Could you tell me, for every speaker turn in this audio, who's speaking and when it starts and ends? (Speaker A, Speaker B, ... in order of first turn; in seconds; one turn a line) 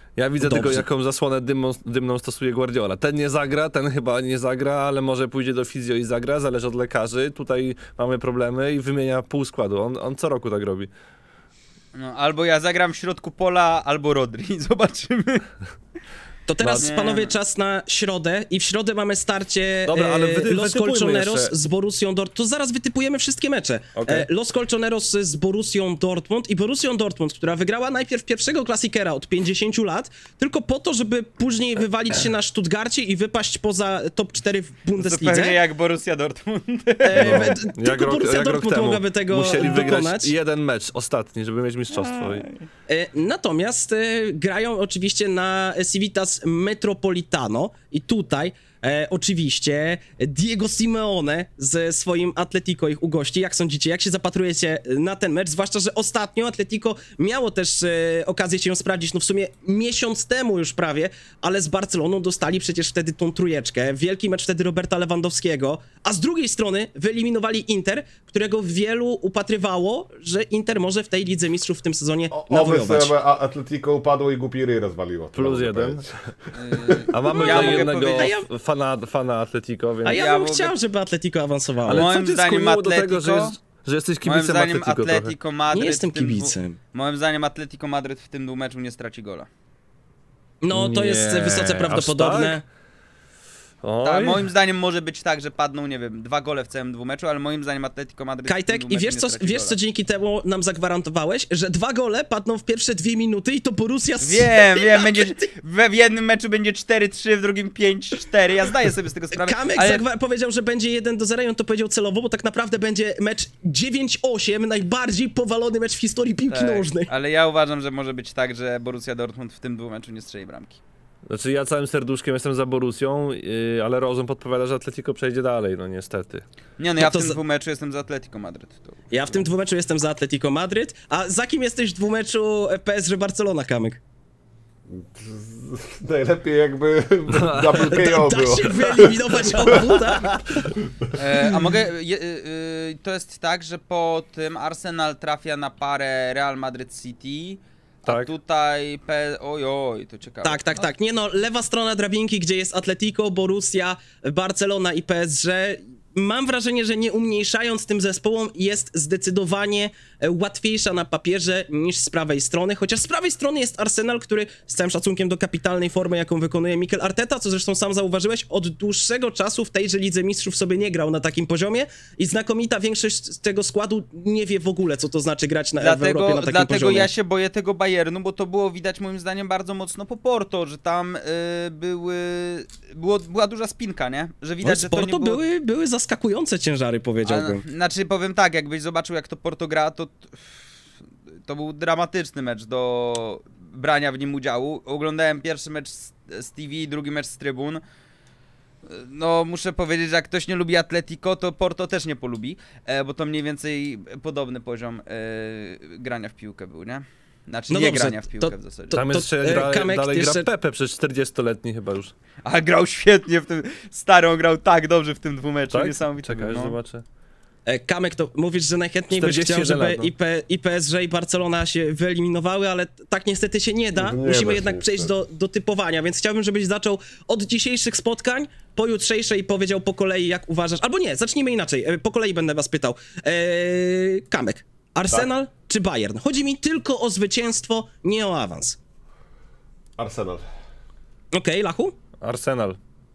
Speaker A: 0.2-10.9
Speaker B: 0.4-0.8
Speaker C: 11.9-15.5
Speaker B: 16.5-35.6
Speaker A: 16.6-16.9
Speaker C: 16.8-17.4
Speaker A: 19.9-21.5
Speaker A: 23.9-24.3
Speaker C: 35.0-37.5
Speaker B: 37.0-40.3
Speaker A: 37.2-42.5
Speaker D: 37.2-37.5
Speaker C: 41.9-42.6
Speaker B: 42.9-73.1
Speaker D: 72.3-77.0
Speaker A: 75.3-76.3
Speaker C: 76.6-78.3
Speaker A: 77.1-80.2
Speaker B: 77.3-78.5
Speaker B: 80.0-82.1
Speaker C: 80.1-80.7
Speaker A: 81.9-85.3
Speaker C: 81.9-83.5
Speaker C: 84.2-89.5
Speaker B: 85.7-86.8
Speaker B: 90.6-92.6
Speaker A: 90.7-92.6
Speaker A: 93.8-94.5
Speaker C: 94.0-99.8
Speaker B: 98.5-105.4
Speaker C: 104.2-110.0
Speaker B: 109.3-117.1
Speaker C: 116.5-120.8
Speaker A: 121.3-126.4
Speaker C: 126.8-129.4
Speaker B: 127.0-127.4
Speaker B: 129.1-134.0
Speaker D: 134.9-140.0
Speaker A: 137.3-138.1
Speaker B: 137.8-140.5
Speaker A: 139.6-140.4
Speaker D: 140.7-141.5
Speaker C: 141.2-150.9
Speaker A: 148.1-148.3
Speaker B: 150.4-177.1
Speaker C: 175.8-185.4
Speaker B: 184.6-187.6
Speaker C: 187.2-190.6
Speaker C: 191.4-197.8
Speaker C: 198.8-209.0
Speaker B: 207.7-210.5
Speaker A: 208.9-212.1
Speaker C: 212.4-216.7
Speaker A: 215.7-217.0
Speaker B: 217.7-238.8
Speaker A: 219.1-220.1
Speaker D: 223.9-225.1
Speaker D: 240.0-240.4
Speaker B: 241.3-242.0
Speaker A: 242.2-242.8